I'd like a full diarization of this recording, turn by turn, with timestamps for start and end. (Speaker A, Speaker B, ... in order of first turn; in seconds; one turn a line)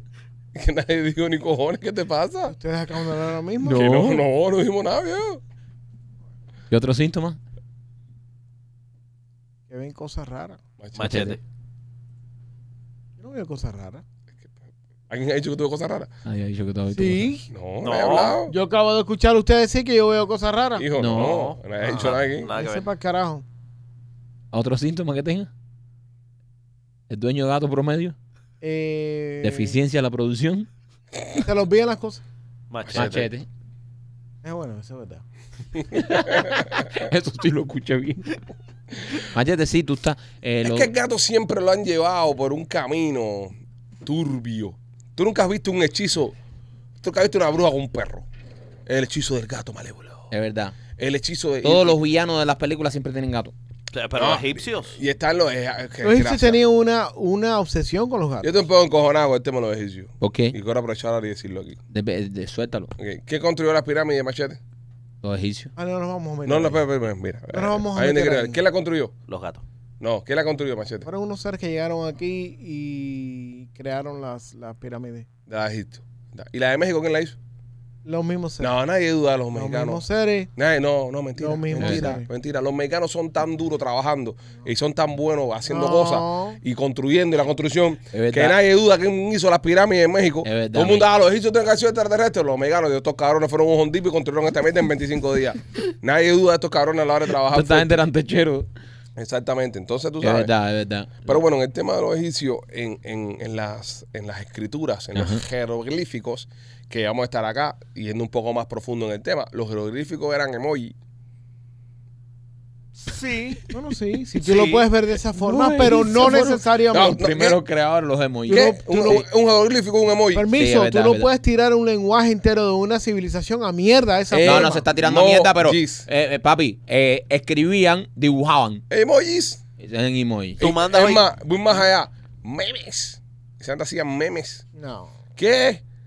Speaker A: 0.5-2.5
Speaker B: 2.5-3.9
Speaker C: 3.6-4.2
Speaker A: 3.6-5.4
Speaker C: 6.7-7.4
Speaker B: 9.7-10.6
Speaker A: 10.8-11.2
Speaker D: 10.9-11.4
Speaker C: 11.0-11.4
Speaker B: 13.2-14.0
Speaker A: 15.1-16.1
Speaker C: 16.2-17.3
Speaker B: 16.9-17.5
Speaker A: 17.5-18.6
Speaker D: 17.8-18.4
Speaker B: 18.5-20.9
Speaker A: 20.8-22.5
Speaker C: 20.9-21.4
Speaker D: 21.1-22.9
Speaker B: 21.8-23.4
Speaker C: 24.5-25.5
Speaker C: 27.1-28.2
Speaker B: 28.6-29.8
Speaker C: 29.4-30.7
Speaker B: 31.4-32.2
Speaker D: 32.7-33.3
Speaker A: 32.8-33.3
Speaker C: 32.9-33.5
Speaker B: 34.4-35.2
Speaker C: 35.9-38.3
Speaker C: 39.2-40.9
Speaker A: 40.6-46.4
Speaker A: 47.0-48.3
Speaker A: 48.9-50.3
Speaker C: 50.3-50.8
Speaker A: 51.0-52.0
Speaker C: 51.6-53.5
Speaker D: 53.9-55.0
Speaker A: 54.2-56.6
Speaker B: 56.0-58.6
Speaker A: 58.4-61.8
Speaker C: 60.2-60.5
Speaker C: 61.9-62.9
Speaker A: 63.0-64.6
Speaker C: 65.2-65.7
Speaker B: 65.8-66.8
Speaker A: 66.5-69.1
Speaker B: 67.5-68.6
Speaker D: 69.3-69.6
Speaker A: 70.0-71.1
Speaker B: 71.0-75.3
Speaker A: 75.5-77.4
Speaker B: 78.0-78.7
Speaker A: 78.6-80.0
Speaker B: 79.5-80.5
Speaker A: 80.6-98.0
Speaker B: 81.4-82.3
Speaker C: 81.8-82.1
Speaker B: 85.7-86.6
Speaker C: 88.1-88.6
Speaker C: 90.4-91.1
Speaker C: 97.5-98.7
Speaker A: 99.2-100.5
Speaker C: 100.2-101.4
Speaker A: 101.2-111.0
Speaker C: 105.2-105.4
Speaker D: 113.0-113.7
Speaker B: 113.7-117.2
Speaker D: 114.4-114.9
Speaker C: 115.4-118.8
Speaker A: 116.9-117.6
Speaker B: 118.5-119.3
Speaker A: 118.5-120.5
Speaker B: 120.3-124.9
Speaker C: 120.6-121.3
Speaker C: 124.3-128.8
Speaker A: 124.4-126.1
Speaker A: 128.9-129.6
Speaker C: 129.8-130.7
Speaker D: 130.6-131.3
Speaker A: 130.6-134.7
Speaker B: 134.8-135.1
Speaker A: 135.4-135.8